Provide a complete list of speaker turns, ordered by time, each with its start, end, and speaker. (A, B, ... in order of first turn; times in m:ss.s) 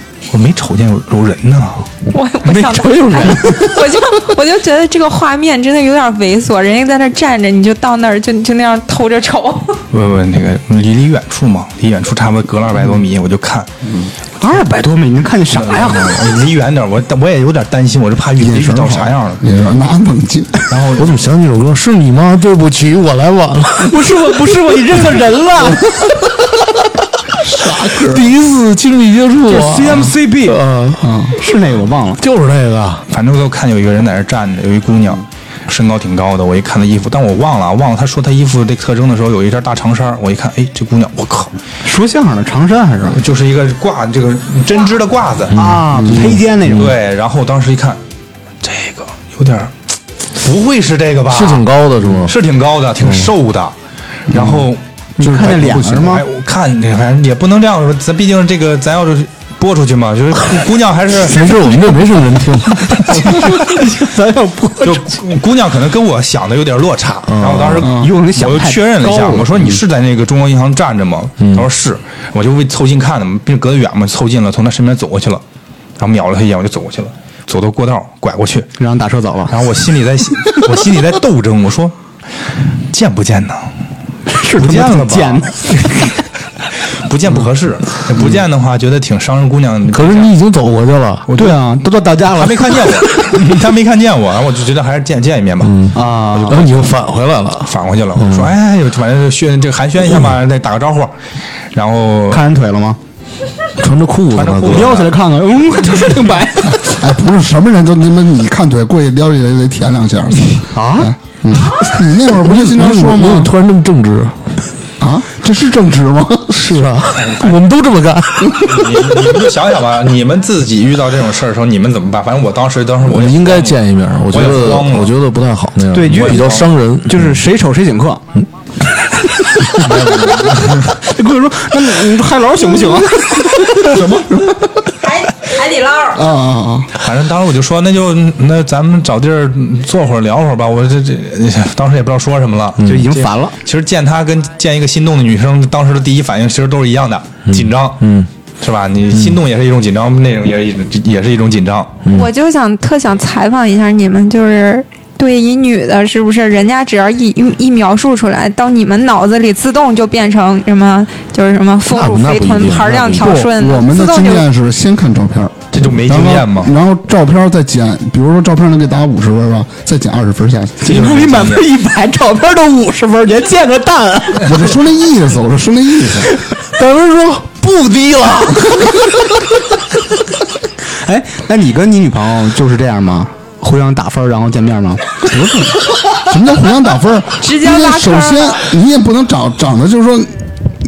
0:00.3-0:01.9 A
0:02.1-0:09.8 B
0:02.4-0:04.0 C
0:09.9-0:13.7 A
0:13.8-0:14.1 D
0:14.4-0:16.3 C
0:15.5-0:19.4 A
0:18.4-0:20.6 D
0:20.7-0:21.2 A
0:21.0-0:24.0 E
0:23.8-0:26.1 C
0:27.4-0:28.3 D
0:28.0-0:31.2 E
0:29.5-0:30.6 C
0:31.0-0:31.4 D
0:31.4-0:32.2 C
0:32.2-0:33.0 E
0:33.1-0:41.6 A
0:41.8-0:43.2 C
0:43.1-0:45.6 A
0:45.5-0:47.0 C
0:46.7-0:48.0 A
0:48.6-0:49.8 A
0:50.3-0:53.8 A
0:51.3-0:52.4 E
0:54.3-0:54.8 A
0:54.3-0:54.6 D
0:55.2-0:56.2 C
0:55.3-0:56.0 D
0:55.4-1:01.5 A
1:01.2-1:03.2 E
1:03.0-1:05.2 C
1:04.8-1:15.4 A
1:07.3-1:07.9 E
1:07.8-1:08.1 D
1:07.9-1:09.6 C
1:11.4-1:11.7 E
1:16.0-1:18.7 A
1:18.8-1:19.6 C
1:19.5-1:22.0 A
1:22.9-1:23.7 A
1:24.3-1:26.2 C
1:24.5-1:25.9 A
1:27.0-1:30.3 A
1:29.9-1:31.3 E
1:31.3-1:31.6 A
1:31.4-1:33.4 C
1:32.3-1:36.9 A
1:35.6-1:38.5 E
1:35.9-1:36.7 C
1:37.6-1:41.1 A
1:41.7-1:42.4 A
1:42.3-1:43.0 C
1:43.8-1:44.9 E
1:44.4-1:45.1 A
1:44.6-1:46.9 C
1:46.8-1:53.5 D
1:50.8-1:51.1 C
1:52.3-1:54.5 E
1:55.0-1:56.6 D
1:56.5-1:58.8 E
1:57.2-1:57.6 A
1:58.6-2:03.8 A
2:03.0-2:07.4 E
2:04.3-2:05.2 A
2:05.9-2:08.3 C
2:06.1-2:06.7 A
2:09.0-2:14.0 C
2:09.8-2:10.8 A
2:13.8-2:14.9 D
2:15.1-2:16.2 B
2:16.1-2:16.9 D
2:17.0-2:28.0 A
2:22.8-2:23.6 C
2:27.5-2:28.3 E
2:28.6-2:32.0 A
2:32.0-2:32.3 E
2:32.1-2:44.5 B
2:41.9-2:43.4 E
2:43.2-2:51.0 D
2:45.7-2:46.7 A
2:50.8-2:54.6 C
2:50.9-2:51.7 A
2:54.4-2:56.3 D
2:56.8-2:58.5 E
2:57.6-2:59.0 C
3:01.0-3:05.3 C
3:05.3-3:10.4 D
3:07.4-3:08.6 B